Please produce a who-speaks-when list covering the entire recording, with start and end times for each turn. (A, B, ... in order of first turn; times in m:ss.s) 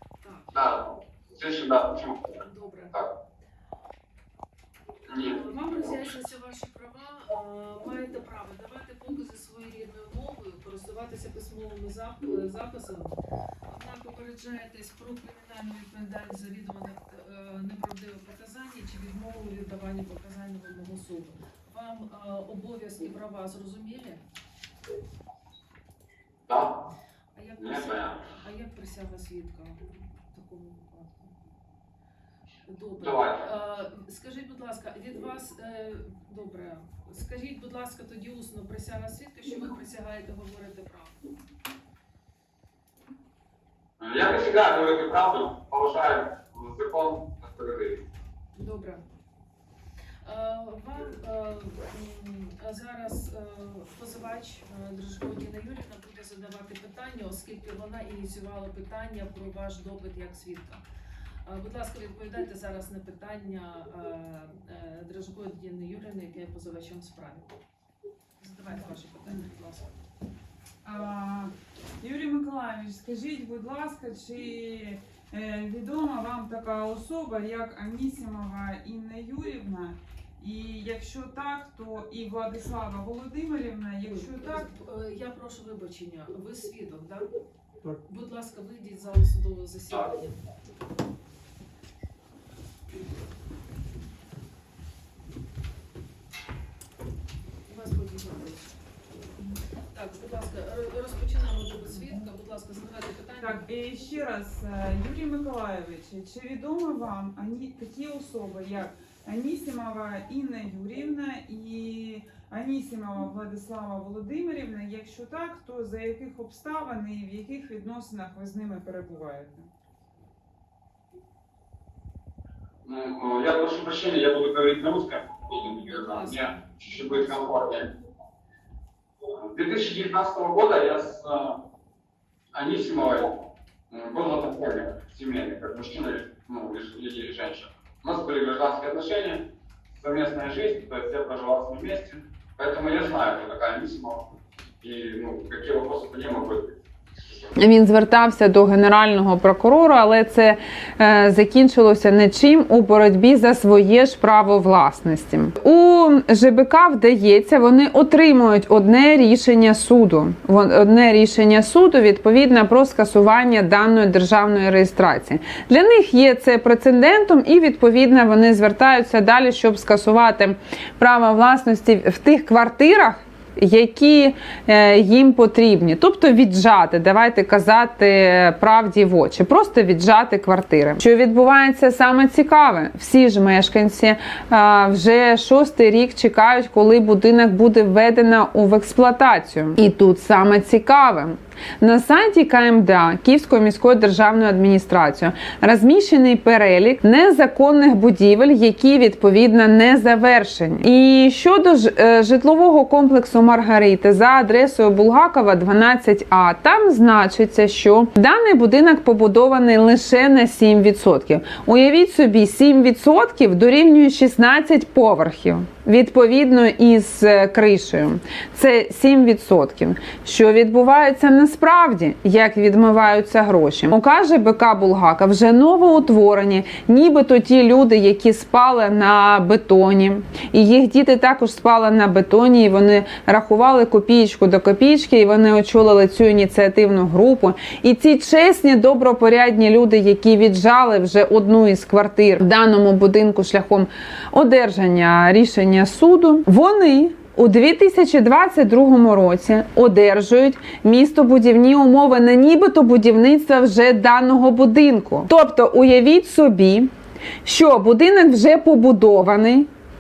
0:00.2-0:00.6 A
0:00.5-0:02.4 B
0:02.4-0:03.0 A
0:05.1-0:06.1 B
0:05.2-0:13.2 A
0:13.7-0:24.2 A
0:26.5-0:26.8 B
0:27.3-0:31.3 A
0:27.6-0:28.2 B
0:32.7-0:41.2 A
0:33.0-0:33.5 B
0:44.0-0:48.0 B
0:48.6-0:49.0 A
0:50.2-1:00.8 A
1:01.5-1:07.5 A
1:08.4-1:09.9 A
1:08.6-1:09.5 C
1:10.8-1:24.7 C
1:24.0-1:27.3 A
1:28.1-1:30.4 A
1:37.7-1:38.7 A
1:39.9-1:43.7 A
1:41.9-1:42.3 C
1:43.4-1:59.7 C
2:02.8-2:07.9 B
2:05.5-2:07.7 A
2:09.3-2:11.6 B
2:12.5-2:24.2 B
2:24.8-2:26.8 B
2:27.6-4:16.9 D
4:17.4-4:19.7 D